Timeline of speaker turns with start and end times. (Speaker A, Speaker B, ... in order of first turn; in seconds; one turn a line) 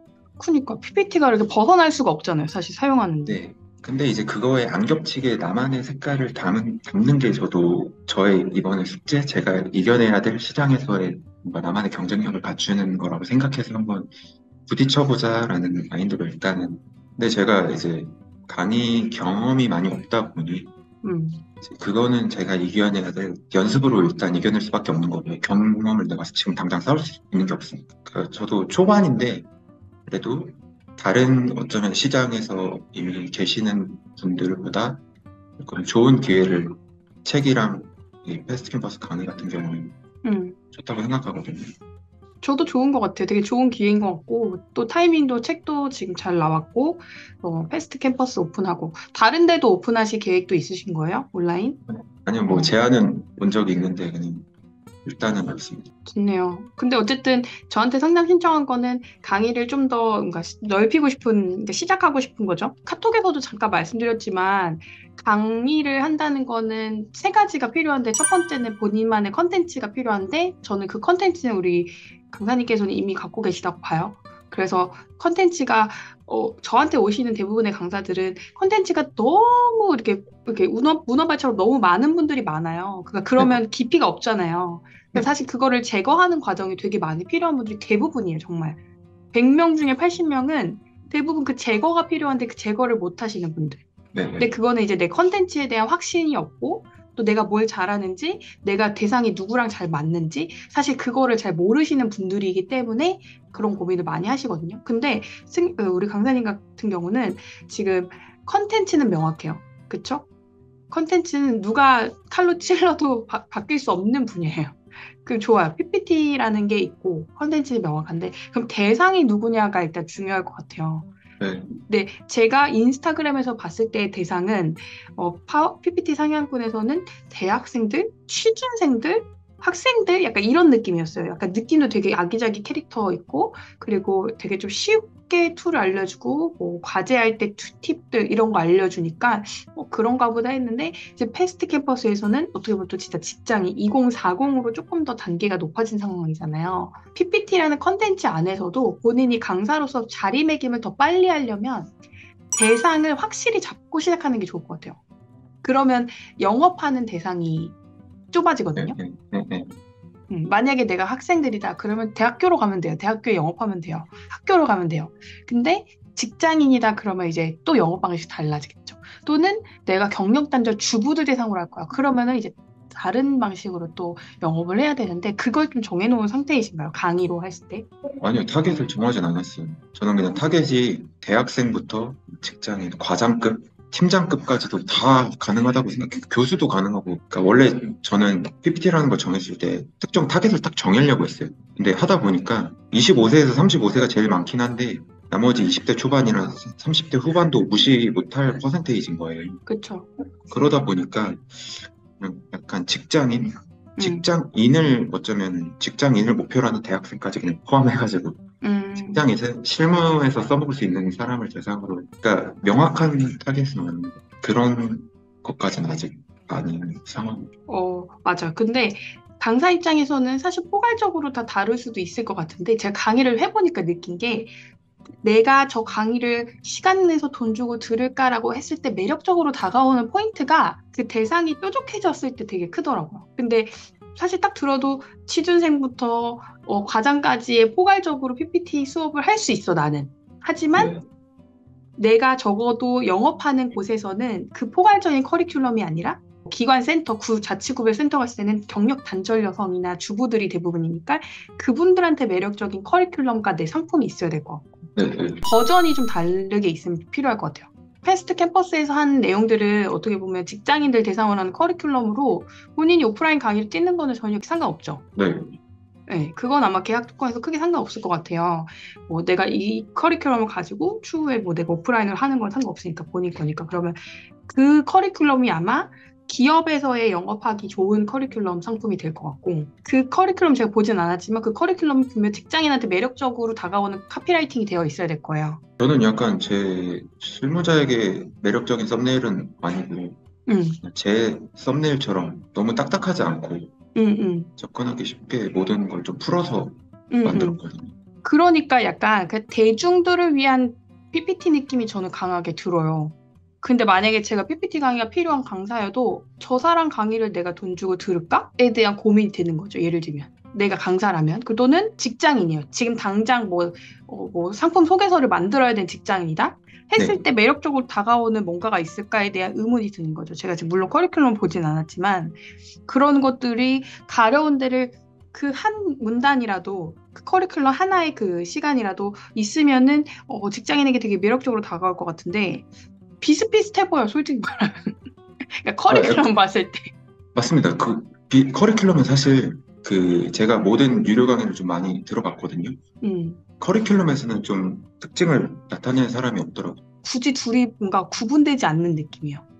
Speaker A: 0.4-3.4
Speaker B: 3.2-14.1
Speaker B: 14.7-20.7
Speaker A: 21.0-21.4
Speaker B: 21.6-29.5
Speaker B: 30.1-35.0
Speaker B: 35.6-40.0
Speaker A: 40.2-40.6
Speaker B: 40.7-41.7
Speaker A: 42.4-51.8
Speaker B: 51.9-54.5
Speaker A: 52.5-52.7
Speaker B: 55.0-55.9
Speaker A: 56.0-88.8
Speaker A: 89.3-93.8
Speaker B: 94.1-94.5
Speaker A: 94.4-110.2
Speaker A: 110.9-121.1
Speaker B: 121.4-121.7
Speaker A: 121.8-151.9
Speaker A: 152.5-155.0
Speaker A: 155.6-157.8
Speaker A: 158.3-159.0
Speaker B: 158.8-159.8
Speaker A: 160.3-177.8
Speaker B: 178.2-199.6
Speaker A: 199.7-200.1
Speaker B: 200.5-208.4
Speaker A: 204.0-204.2
Speaker A: 208.6-209.3
Speaker B: 209.0-217.5
Speaker A: 217.7-224.5
Speaker A: 225.2-240.9
Speaker B: 240.7-241.0
Speaker A: 241.9-265.0
Speaker B: 254.9-255.5
Speaker B: 265.1-265.6
Speaker A: 266.1-285.6
Speaker B: 285.8-290.2
Speaker A: 290.5-290.8
Speaker B: 290.8-293.7
Speaker A: 293.9-294.5
Speaker B: 294.6-297.9
Speaker A: 297.1-297.6
Speaker A: 298.2-332.7
Speaker B: 316.9-317.2
Speaker A: 333.2-336.9
Speaker B: 335.9-336.3
Speaker B: 337.3-342.8
Speaker A: 343.0-343.4
Speaker B: 343.6-346.8
Speaker A: 347.0-349.4